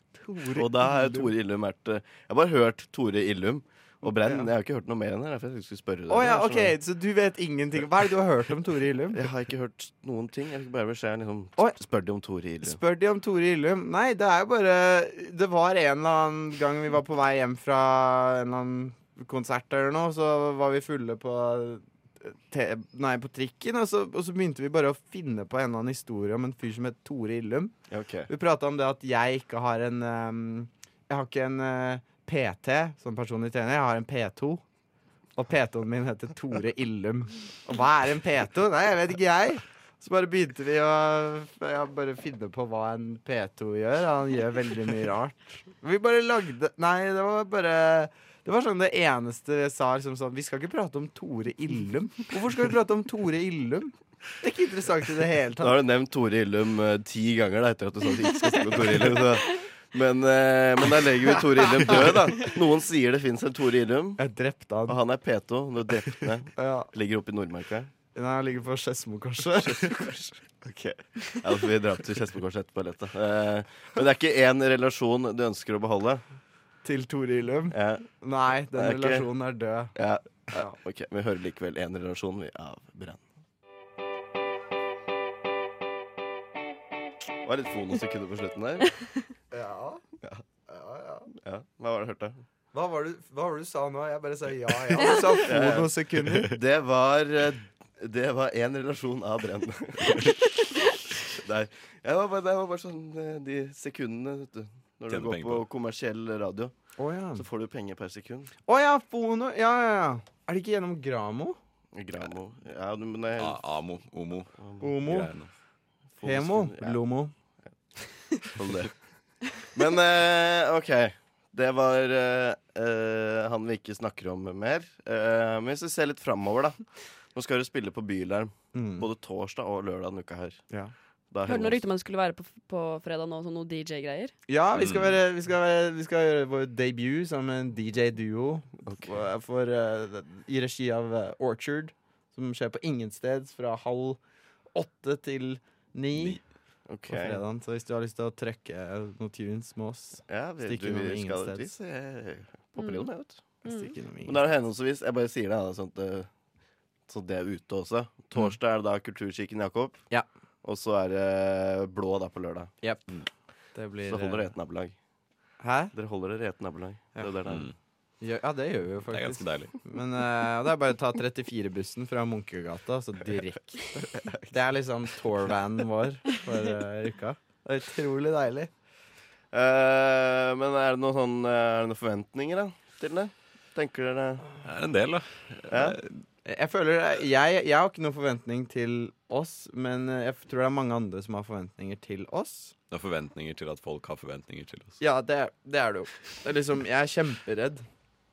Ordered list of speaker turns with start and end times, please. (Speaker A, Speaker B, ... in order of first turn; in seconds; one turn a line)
Speaker A: 0.2-1.3
Speaker B: 0.5-6.8
Speaker A: 4.0-4.5
Speaker A: 6.1-9.3
Speaker B: 9.1-12.8
Speaker A: 12.6-27.8
Speaker B: 27.9-28.3
Speaker A: 28.3-34.6
Speaker A: 35.4-55.8
Speaker B: 55.6-64.2
Speaker A: 64.2-65.0
Speaker B: 64.9-67.9
Speaker A: 66.6-66.9
Speaker A: 68.1-69.9
Speaker B: 69.6-76.2
Speaker A: 76.8-79.9
Speaker B: 77.7-78.1
Speaker B: 78.8-79.3
Speaker B: 80.0-83.2
Speaker B: 87.4-88.9
Speaker A: 89.5-90.0
Speaker A: 90.7-91.3
Speaker B: 91.4-92.4
Speaker A: 92.7-96.5
Speaker B: 95.4-95.9
Speaker C: 96.2-96.5
Speaker B: 96.5-100.4
Speaker B: 101.3-106.7
Speaker C: 105.1-105.7
Speaker A: 107.0-107.5
Speaker B: 107.4-108.5
Speaker A: 108.7-111.6
Speaker B: 112.0-113.6
Speaker C: 113.4-115.5
Speaker A: 114.8-115.3
Speaker B: 116.2-117.0
Speaker A: 116.2-117.3
Speaker B: 118.4-118.9
Speaker B: 119.7-126.8
Speaker B: 127.3-130.6
Speaker A: 128.7-129.1
Speaker B: 131.3-131.8
Speaker D: 131.5-134.3
Speaker A: 134.5-144.2
Speaker C: 134.8-135.2
Speaker A: 144.7-146.4
Speaker B: 146.9-147.4
Speaker A: 147.1-151.7
Speaker B: 150.3-153.4
Speaker D: 152.8-153.1
Speaker D: 153.6-153.9
Speaker A: 153.7-154.5
Speaker B: 154.2-156.3
Speaker B: 157.1-160.0
Speaker B: 160.6-162.7
Speaker A: 162.8-163.2
Speaker A: 163.7-164.5
Speaker B: 164.1-164.9
Speaker A: 165.6-165.9
Speaker B: 165.9-167.7
Speaker C: 167.5-167.8
Speaker A: 168.2-178.7
Speaker C: 169.1-169.8
Speaker B: 174.0-174.4
Speaker B: 179.5-184.5
Speaker C: 184.6-186.2
Speaker B: 185.7-186.0
Speaker A: 186.4-192.7
Speaker C: 192.9-195.0
Speaker A: 195.0-197.8